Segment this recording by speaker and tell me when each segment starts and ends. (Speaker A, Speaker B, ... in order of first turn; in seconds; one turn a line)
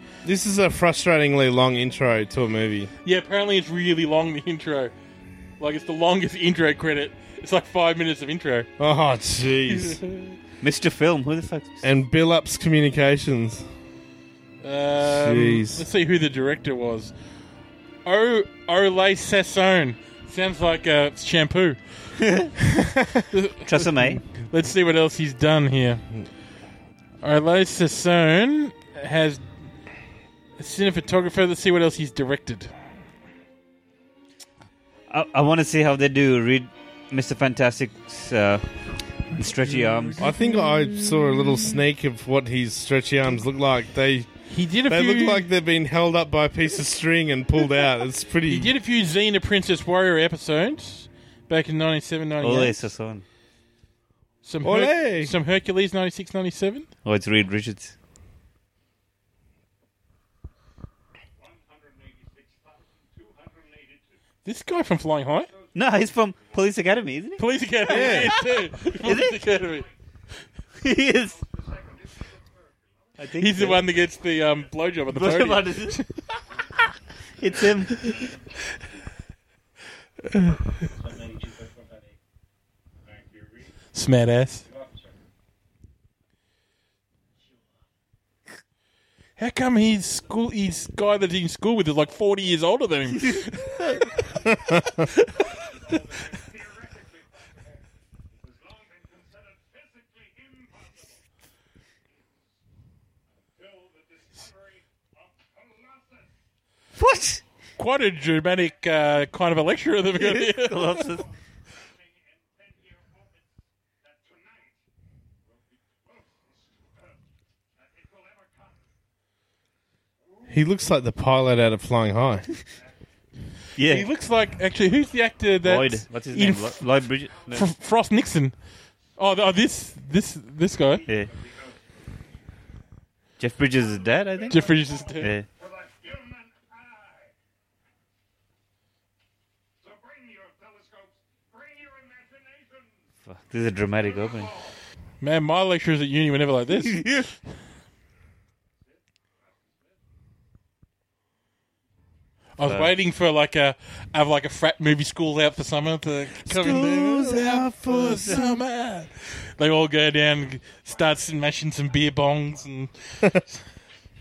Speaker A: 0.2-2.9
Speaker B: 3.0-4.9
Speaker B: 5.6-8.7
Speaker A: 8.8-10.0
Speaker B: 9.7-10.4
Speaker C: 10.6-11.8
Speaker A: 11.8-13.7
Speaker B: 14.6-17.1
Speaker A: 15.0-15.9
Speaker B: 18.1-21.8
Speaker C: 22.2-22.5
Speaker A: 22.7-23.2
Speaker B: 23.3-26.1
Speaker C: 23.7-24.2
Speaker B: 27.2-29.5
Speaker B: 30.6-32.7
Speaker C: 35.1-38.6
Speaker C: 39.3-40.3
Speaker B: 39.6-40.5
Speaker A: 40.2-44.3
Speaker B: 44.5-45.5
Speaker A: 44.9-48.7
Speaker B: 48.5-52.8
Speaker C: 52.4-53.2
Speaker B: 54.4-56.9
Speaker A: 54.6-55.3
Speaker C: 57.0-58.0
Speaker B: 64.4-65.5
Speaker C: 65.7-69.4
Speaker B: 67.4-69.9
Speaker A: 67.9-68.4
Speaker C: 70.8-71.4
Speaker C: 73.2-73.8
Speaker B: 73.4-76.1
Speaker C: 75.1-76.0
Speaker C: 77.4-78.0
Speaker B: 83.9-84.7
Speaker B: 89.4-94.2
Speaker C: 93.3-93.9
Speaker A: 94.7-95.0
Speaker C: 107.0-107.4
Speaker B: 107.8-111.1
Speaker C: 110.2-111.2
Speaker A: 120.5-122.5
Speaker C: 123.8-124.1
Speaker B: 123.9-128.6
Speaker C: 125.6-127.7
Speaker B: 129.2-131.1
Speaker C: 133.4-135.5
Speaker B: 134.5-135.3
Speaker C: 143.2-144.6
Speaker B: 145.2-147.3
Speaker C: 146.8-147.3
Speaker B: 152.6-163.6
Speaker C: 152.6-152.9
Speaker A: 156.4-158.6